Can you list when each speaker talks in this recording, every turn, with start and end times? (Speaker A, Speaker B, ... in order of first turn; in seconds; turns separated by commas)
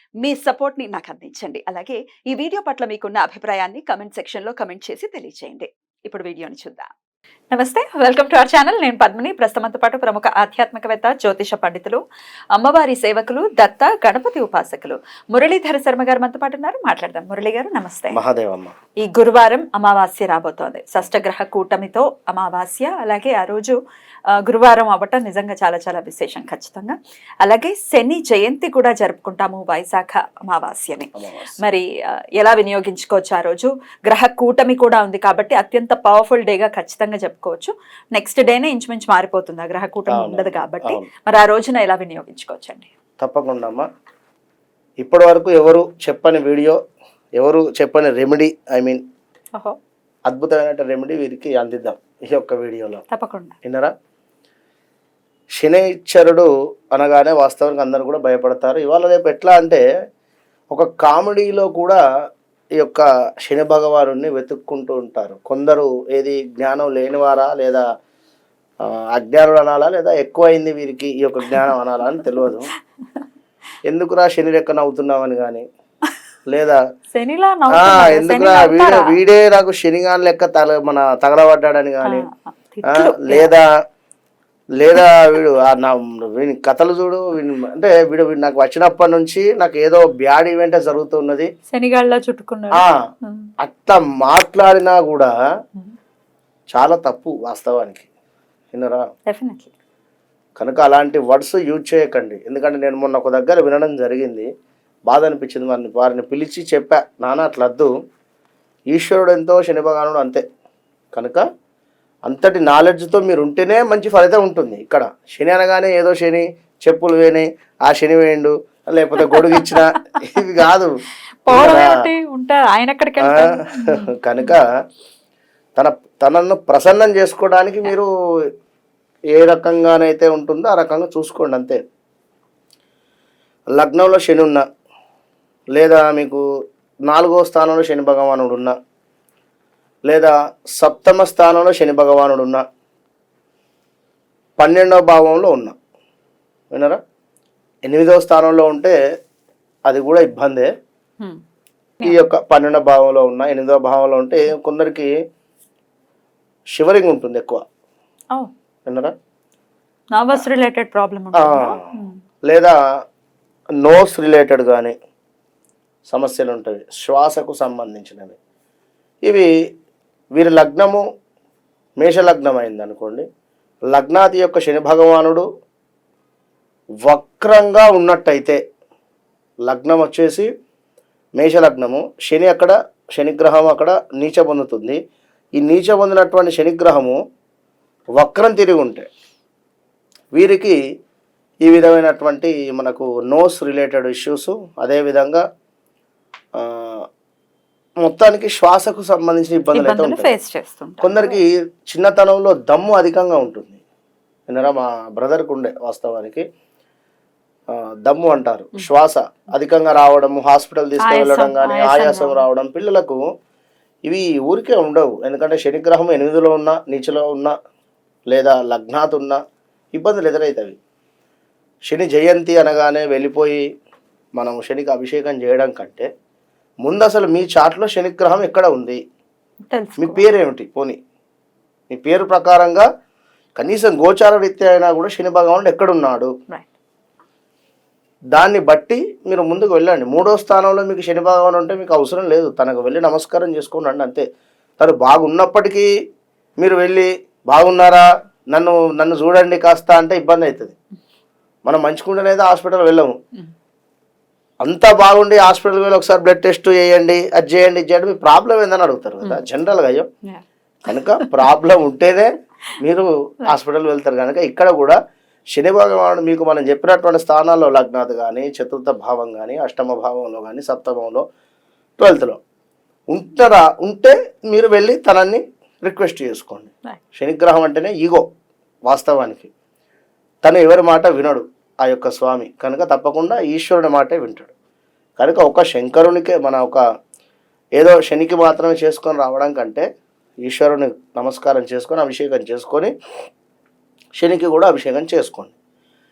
Speaker A: 0.2-6.9, Speaker A: 7.5-12.0, Speaker A: 12.5-18.2, Speaker B: 18.1-18.7, Speaker A: 19.0-23.8, Speaker A: 24.3-31.9, Speaker B: 31.2-31.5, Speaker A: 32.4-42.9, Speaker B: 40.1-41.1, Speaker B: 43.2-43.9, Speaker B: 45.0-46.8, Speaker B: 47.4-49.0, Speaker B: 50.3-53.0, Speaker A: 53.1-53.5, Speaker B: 53.6-53.9, Speaker B: 55.6-59.8, Speaker B: 60.7-62.0, Speaker B: 62.8-67.8, Speaker B: 69.1-72.7, Speaker B: 73.8-75.6, Speaker B: 76.5-76.8, Speaker A: 77.1-79.2, Speaker B: 77.7-82.3, Speaker A: 82.0-83.5, Speaker B: 82.9-83.7, Speaker B: 84.8-91.5, Speaker A: 91.7-93.5, Speaker B: 93.6-95.3, Speaker B: 96.7-98.1, Speaker B: 98.7-99.0, Speaker A: 99.3-99.7, Speaker B: 100.6-104.5, Speaker B: 105.1-107.9, Speaker B: 108.9-110.4, Speaker B: 111.1-111.4, Speaker B: 112.3-120.9, Speaker A: 119.2-120.2, Speaker A: 121.5-124.5, Speaker B: 121.5-121.9, Speaker B: 123.2-124.7, Speaker B: 125.8-128.1, Speaker B: 129.3-131.8, Speaker B: 133.7-134.6, Speaker B: 135.8-136.4, Speaker B: 137.1-138.8, Speaker B: 140.1-142.6, Speaker B: 144.6-145.8, Speaker B: 146.7-147.0, Speaker B: 147.9-149.0, Speaker B: 149.9-150.7, Speaker B: 152.0-155.1, Speaker B: 156.8-157.6, Speaker B: 158.9-159.1, Speaker A: 160.1-162.2, Speaker B: 161.3-161.8, Speaker B: 162.5-162.8, Speaker B: 163.8-164.9, Speaker B: 166.1-168.4, Speaker B: 169.2-169.5, Speaker B: 170.3-171.0, Speaker B: 172.0-173.2, Speaker B: 173.9-175.4, Speaker B: 177.1-178.6, Speaker B: 179.7-180.5, Speaker B: 181.4-185.0, Speaker B: 185.6-187.2, Speaker B: 188.2-189.1, Speaker B: 190.3-190.8, Speaker B: 191.6-195.4, Speaker B: 196.6-197.1, Speaker B: 198.0-200.3, Speaker A: 199.7-201.4, Speaker B: 201.0-203.8, Speaker B: 204.5-206.4, Speaker B: 207.7-213.2, Speaker A: 211.0-212.5, Speaker B: 214.1-217.6, Speaker B: 218.3-219.4, Speaker B: 219.9-220.8, Speaker B: 221.9-223.7, Speaker B: 224.4-226.1, Speaker B: 226.8-229.0, Speaker A: 229.7-230.3, Speaker B: 230.0-231.0, Speaker B: 231.9-232.9, Speaker B: 233.6-236.3, Speaker B: 238.3-244.2, Speaker B: 244.8-245.9, Speaker B: 246.6-250.7, Speaker B: 251.7-253.1, Speaker B: 254.6-260.1, Speaker A: 260.3-261.5, Speaker B: 260.9-265.0, Speaker B: 265.5-271.2, Speaker B: 272.0-272.4, Speaker B: 273.1-278.2, Speaker B: 278.9-279.5, Speaker B: 280.4-284.5, Speaker B: 285.2-286.8, Speaker B: 287.8-289.9, Speaker B: 290.4-292.9, Speaker B: 294.2-295.6